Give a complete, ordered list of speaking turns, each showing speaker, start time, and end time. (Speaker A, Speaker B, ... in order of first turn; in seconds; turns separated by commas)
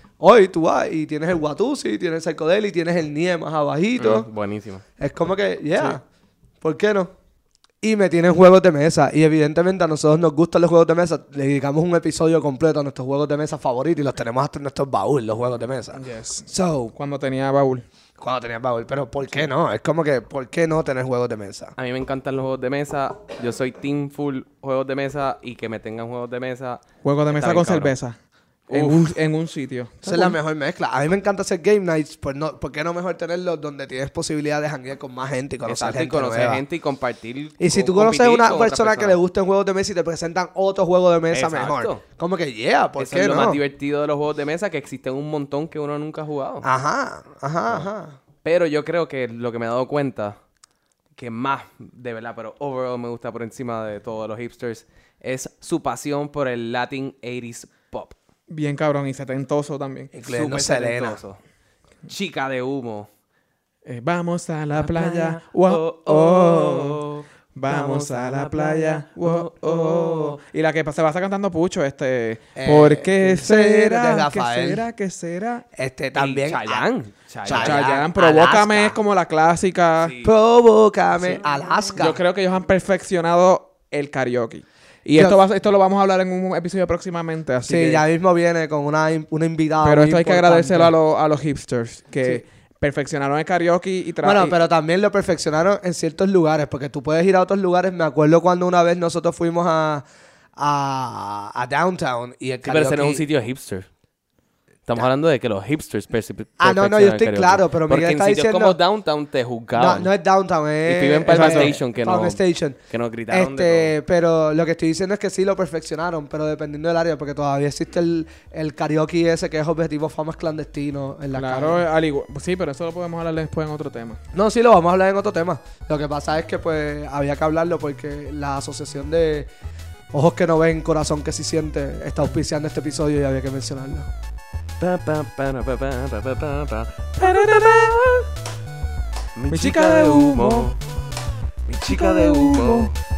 Speaker A: 0.2-4.3, Speaker B: 4.0-4.8, Speaker A: 5.0-6.0, Speaker A: 6.6-7.1, Speaker A: 7.8-16.9, Speaker C: 15.9-17.9, Speaker A: 18.2-21.8, Speaker B: 21.8-27.9, Speaker C: 27.0-28.2, Speaker B: 28.7-29.2, Speaker C: 28.7-30.4, Speaker A: 30.0-36.6, Speaker B: 35.6-39.2, Speaker A: 37.6-43.6, Speaker B: 41.3-42.0, Speaker B: 43.0-46.7, Speaker A: 46.6-48.2, Speaker B: 48.4-50.4, Speaker B: 51.1-58.2, Speaker C: 58.5-60.1, Speaker A: 60.1-61.2, Speaker B: 60.3-61.4, Speaker B: 62.1-63.1, Speaker C: 63.9-75.7, Speaker B: 64.8-70.4, Speaker A: 72.6-74.8, Speaker A: 75.7-76.8, Speaker B: 76.2-77.8, Speaker A: 77.4-79.0, Speaker C: 77.5-80.2, Speaker B: 80.0-80.3, Speaker A: 80.2-82.2, Speaker C: 82.0-88.0, Speaker A: 85.2-85.4, Speaker A: 87.7-91.0, Speaker C: 89.8-94.6, Speaker A: 94.2-100.0, Speaker A: 100.6-103.2, Speaker B: 102.7-103.9, Speaker B: 104.9-110.1, Speaker A: 106.6-108.8, Speaker A: 109.8-121.8, Speaker B: 110.8-113.9, Speaker C: 111.3-111.8, Speaker C: 121.3-124.2, Speaker A: 124.3-129.5, Speaker A: 130.1-134.1, Speaker B: 134.8-138.3, Speaker C: 137.2-138.0, Speaker B: 139.4-140.8, Speaker C: 139.5-140.7, Speaker B: 141.7-142.9, Speaker C: 141.9-142.9